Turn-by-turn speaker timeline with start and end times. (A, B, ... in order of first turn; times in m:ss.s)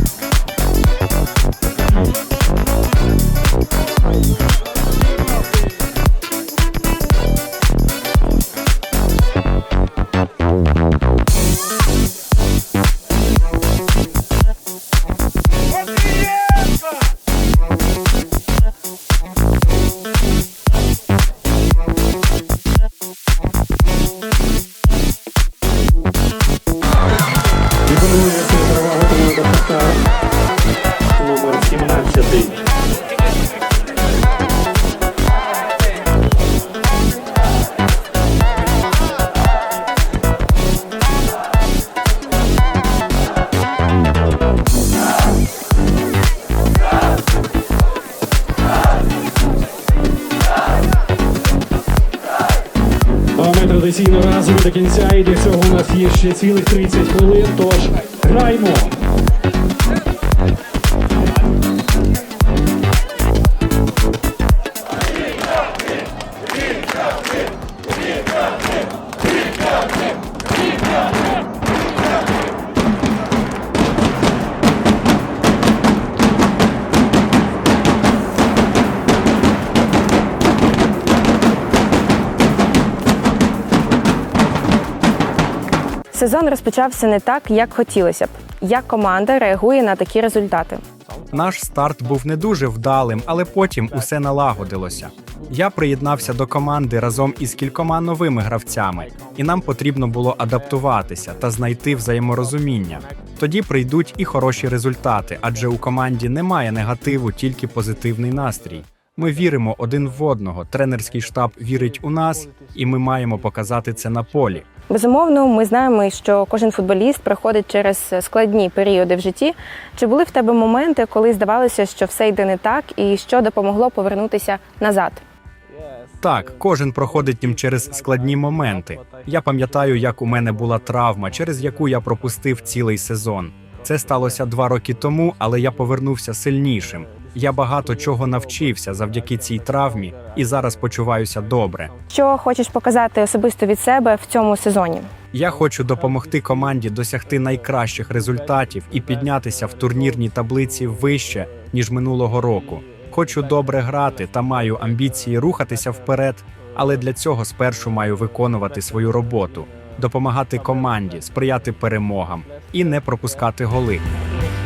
0:27.9-0:30.0 A
0:31.2-0:32.5 A
0:53.4-0:58.9 A
1:26.1-1:30.8 B
1:31.3-1:54.6 C
1:54.9-2:05.2 B
2:06.2-2:21.9 C
2:22.1-2:25.1 B
2:25.3-2:44.0 C